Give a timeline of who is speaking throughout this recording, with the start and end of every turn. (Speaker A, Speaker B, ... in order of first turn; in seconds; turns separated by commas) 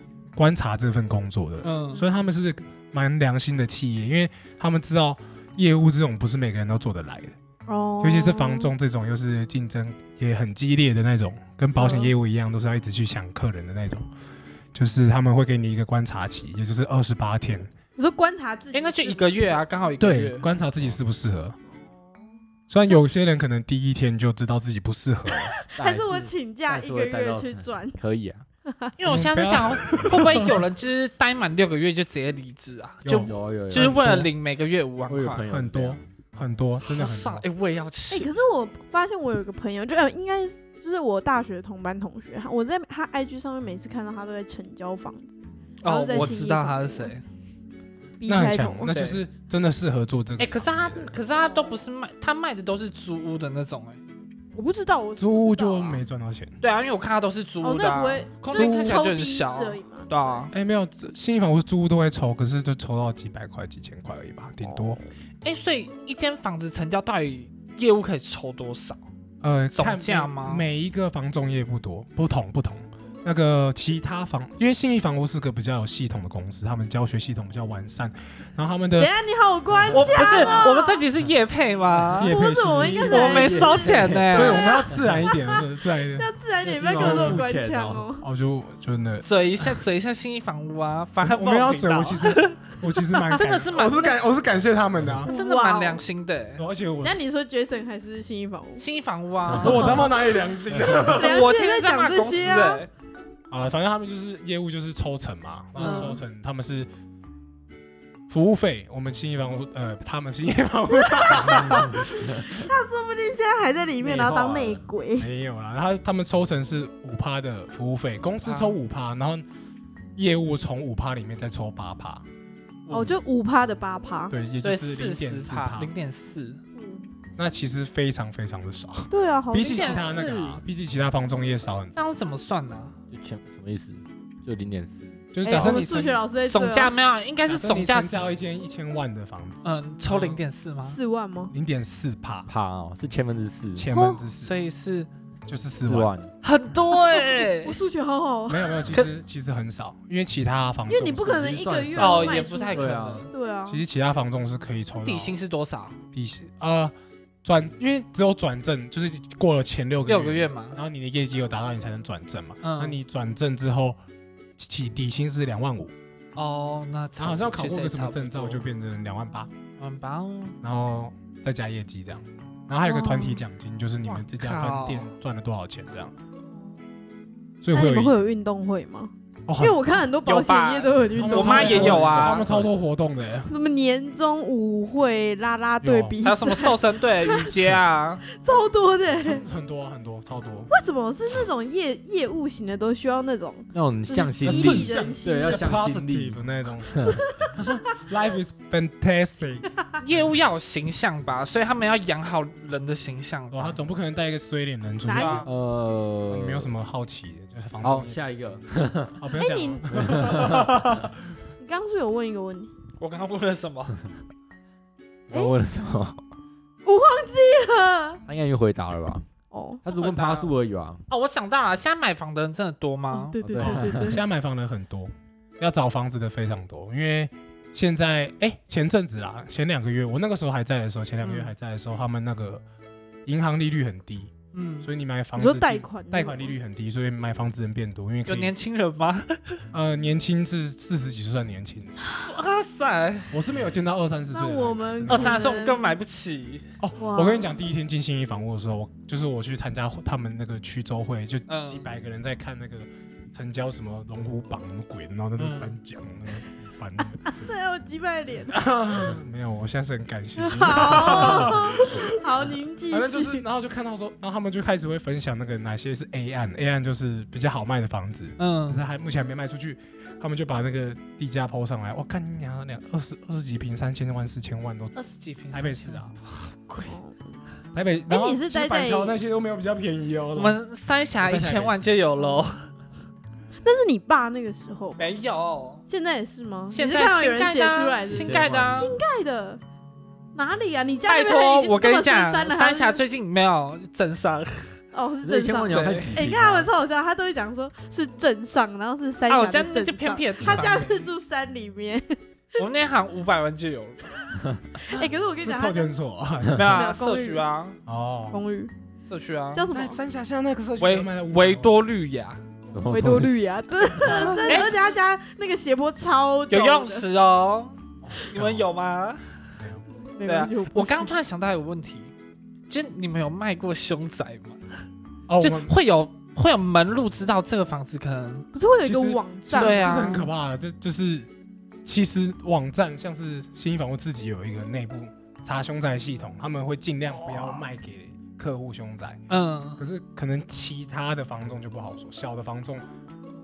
Speaker A: 0.4-7.4, Speaker B: 1.6-2.0, Speaker C: 7.7-8.7, Speaker A: 8.0-14.1, Speaker C: 11.8-12.2, Speaker A: 14.7-17.7, Speaker C: 18.0-19.7, Speaker B: 18.7-20.5, Speaker A: 20.0-21.6, Speaker C: 21.7-22.4, Speaker A: 22.7-25.6, Speaker C: 25.3-28.0, Speaker D: 25.8-28.4, Speaker C: 28.7-29.0, Speaker B: 29.0-35.5, Speaker A: 29.1-30.6, Speaker C: 29.8-30.1, Speaker A: 33.0-34.3, Speaker D: 33.2-34.2, Speaker D: 35.1-36.0, Speaker A: 35.5-37.5, Speaker B: 36.8-38.3, Speaker C: 38.1-47.1, Speaker B: 45.8-47.2, Speaker C: 48.2-48.9, Speaker A: 48.3-51.1, Speaker B: 48.9-49.2, Speaker B: 50.4-54.0, Speaker C: 54.5-56.0, Speaker A: 55.2-56.6, Speaker B: 56.6-60.5, Speaker C: 57.6-60.5, Speaker A: 58.5-59.1, Speaker A: 60.5-65.0, Speaker B: 65.4-69.0, Speaker A: 69.4-79.1, Speaker B: 69.8-70.7, Speaker C: 79.0-81.0, Speaker B: 79.9-82.3, Speaker A: 82.1-83.1, Speaker C: 82.2-88.3, Speaker D: 82.7-85.3, Speaker B: 83.1-84.7, Speaker A: 84.3-86.3, Speaker D: 86.6-88.1, Speaker A: 86.9-87.5, Speaker A: 88.2-89.8, Speaker B: 89.2-92.6, Speaker A: 91.2-95.3, Speaker B: 93.3-94.2, Speaker C: 95.3-96.0, Speaker B: 95.3-96.6, Speaker A: 96.6-97.2, Speaker C: 97.0-98.8, Speaker B: 98.8-100.1, Speaker A: 99.5-101.4, Speaker D: 99.5-99.9, Speaker C: 99.7-100.2, Speaker C: 100.9-102.8, Speaker B: 101.0-102.9, Speaker A: 103.5-106.9, Speaker B: 105.8-106.2, Speaker C: 105.8-106.2, Speaker A: 108.3-112.6, Speaker C: 110.9-115.3, Speaker B: 114.1-114.8, Speaker A: 114.1-114.5, Speaker A: 115.2-119.5, Speaker B: 118.4-118.8, Speaker A: 120.2-122.2, Speaker B: 122.9-123.2, Speaker C: 122.9-124.3, Speaker A: 124.3-125.9, Speaker B: 124.6-126.6, Speaker C: 126.8-127.1, Speaker A: 127.4-131.9, Speaker C: 129.1-130.2, Speaker B: 129.6-130.6, Speaker B: 132.0-133.0, Speaker D: 133.1-135.3, Speaker A: 135.3-136.2, Speaker C: 135.4-136.9, Speaker B: 136.5-138.3, Speaker A: 137.5-140.4, Speaker B: 139.6-141.0, Speaker C: 140.8-141.5, Speaker A: 141.5-142.5, Speaker D: 142.5-143.9, Speaker A: 143.8-144.6, Speaker C: 143.9-144.3, Speaker B: 144.4-145.1, Speaker A: 145.5-146.1, Speaker D: 145.8-146.3, Speaker B: 146.4-147.8, Speaker C: 147.2-148.8, Speaker A: 148.5-151.7, Speaker C: 150.9-153.8, Speaker D: 151.4-153.3, Speaker B: 152.0-153.3, Speaker A: 153.7-155.4, Speaker B: 155.0-156.0, Speaker A: 156.1-164.0, Speaker B: 160.1-160.8, Speaker B: 162.6-163.0, Speaker A: 164.6-165.9, Speaker B: 166.4-168.6, Speaker A: 167.2-169.5, Speaker B: 169.8-170.6, Speaker A: 170.6-176.1, Speaker C: 172.8-173.4, Speaker B: 174.2-175.1, Speaker C: 176.5-176.9, Speaker A: 177.6-178.2, Speaker C: 177.7-182.1, Speaker A: 179.5-179.9, Speaker B: 180.2-182.7, Speaker A: 181.1-183.5, Speaker C: 183.5-187.6, Speaker A: 185.8-186.2, Speaker B: 186.2-188.2, Speaker C: 188.3-189.4, Speaker A: 189.2-190.7, Speaker C: 190.7-195.8, Speaker D: 193.7-197.4, Speaker A: 194.4-199.7, Speaker C: 196.9-198.0, Speaker B: 200.0-203.8, Speaker A: 203.5-205.5, Speaker C: 205.1-205.5, Speaker B: 205.1-205.4, Speaker D: 205.4-206.7, Speaker A: 206.3-208.2, Speaker D: 207.8-209.2, Speaker A: 209.2-211.2, Speaker C: 209.3-210.6, Speaker D: 209.9-210.8, Speaker C: 211.6-212.7, Speaker B: 213.0-214.0, Speaker D: 215.3-216.2, Speaker C: 216.8-218.2, Speaker D: 218.3-219.3, Speaker C: 219.5-219.8, Speaker D: 219.8-221.0, Speaker B: 219.9-220.5, Speaker B: 221.1-223.4, Speaker C: 223.1-224.2, Speaker D: 223.4-224.2, Speaker A: 223.6-232.6, Speaker B: 231.2-231.5, Speaker A: 233.3-238.5, Speaker B: 234.5-234.9, Speaker C: 235.4-236.6, Speaker B: 238.3-239.6, Speaker A: 239.7-241.9, Speaker B: 242.2-243.4, Speaker A: 243.3-245.5, Speaker C: 244.3-246.0, Speaker B: 245.1-246.7, Speaker A: 246.8-257.4, Speaker C: 247.0-247.6, Speaker B: 251.5-251.8, Speaker B: 255.4-255.8, Speaker C: 257.2-258.7, Speaker A: 258.5-275.0, Speaker C: 260.4-263.4, Speaker B: 268.4-268.8, Speaker B: 275.0-277.0, Speaker A: 275.5-276.1, Speaker C: 276.9-277.4, Speaker A: 277.7-280.6, Speaker C: 278.1-279.2, Speaker B: 280.4-282.7, Speaker A: 281.2-282.0, Speaker C: 283.6-285.0, Speaker B: 285.0-285.8, Speaker C: 285.9-289.6, Speaker B: 286.7-288.9, Speaker D: 288.1-288.9, Speaker C: 290.4-293.0, Speaker B: 291.1-294.8, Speaker C: 294.9-302.2, Speaker D: 295.2-296.7, Speaker B: 295.7-296.2, Speaker B: 299.3-301.1, Speaker A: 300.4-300.8, Speaker B: 302.6-304.2, Speaker C: 304.8-305.9, Speaker A: 305.4-306.8, Speaker B: 306.5-307.8, Speaker C: 306.7-307.4, Speaker A: 307.9-308.4, Speaker C: 308.3-308.7, Speaker B: 309.1-309.6, Speaker C: 309.5-310.0, Speaker A: 309.7-311.8, Speaker B: 310.8-312.4, Speaker D: 312.7-313.6, Speaker C: 312.9-317.1, Speaker B: 314.0-314.7, Speaker A: 314.0-314.6, Speaker B: 316.5-317.8, Speaker A: 318.0-318.7, Speaker B: 318.3-319.4, Speaker C: 320.1-321.1, Speaker B: 320.2-322.1, Speaker B: 322.7-324.6, Speaker A: 325.3-325.8, Speaker B: 325.4-328.5, Speaker C: 328.5-330.3, Speaker A: 328.8-331.3, Speaker B: 329.6-330.3, Speaker A: 331.9-339.2, Speaker B: 337.2-337.7, Speaker B: 339.3-339.8, Speaker A: 339.8-342.9